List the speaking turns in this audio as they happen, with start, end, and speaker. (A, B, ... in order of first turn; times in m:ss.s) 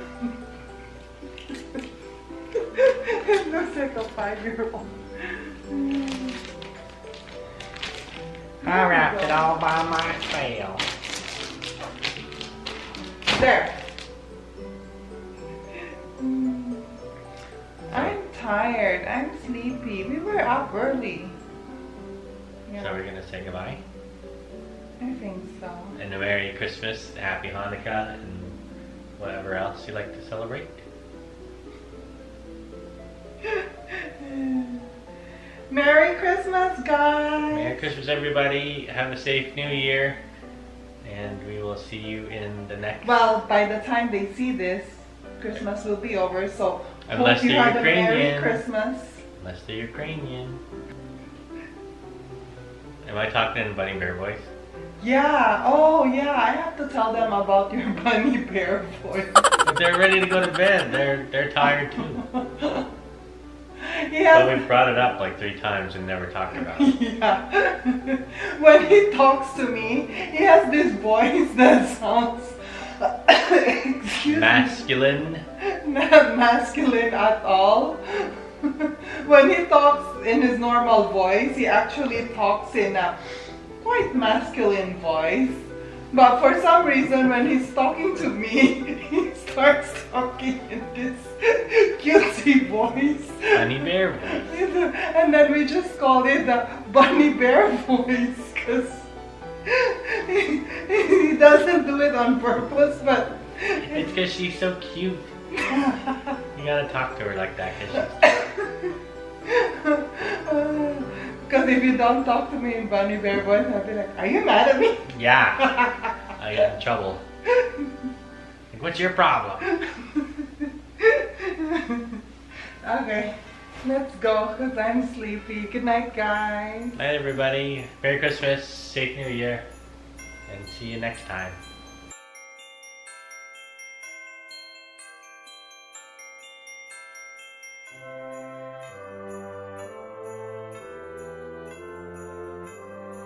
0:02.7-0:06.4 A
0:08.6-0:09.5 A
0:08.6-0:10.8 B
0:13.3-0:13.8 A
0:16.2-0:16.9 A
0:17.9-0:21.3 A
0:22.7-0:23.0 A
0:22.8-0:23.8 B
0:25.0-0:26.0 A
0:26.0-0:28.6 B
0:29.2-0:30.8 B
0:33.4-0:34.9 A
0:35.7-0:37.8 A
0:37.5-0:40.2 B
0:41.0-0:43.2 B
0:43.0-0:49.2 A
0:47.1-0:48.6 B
0:49.4-0:50.6 B
0:53.0-0:54.5 B
0:55.0-0:59.5 A
0:59.6-1:02.2 B
1:02.2-1:02.8 A
1:03.8-1:04.7 A
1:04.3-1:06.9 B
1:06.6-1:14.8 A
1:14.2-1:15.4 B
1:15.8-1:23.2 A
1:23.8-1:39.1 A
1:33.5-1:34.5 B
1:39.7-1:44.1 A
1:43.8-1:45.3 B
1:45.5-1:46.4 A
1:46.5-1:48.4 B
1:48.2-1:48.9 A
1:49.5-1:56.2 A
1:55.1-1:55.8 B
1:56.3-1:57.2 B
1:57.6-1:57.8 A
1:58.7-1:59.6 B
1:59.6-2:02.2 A
2:02.8-2:07.0 A
2:06.9-2:09.6 B
2:10.5-2:11.6 B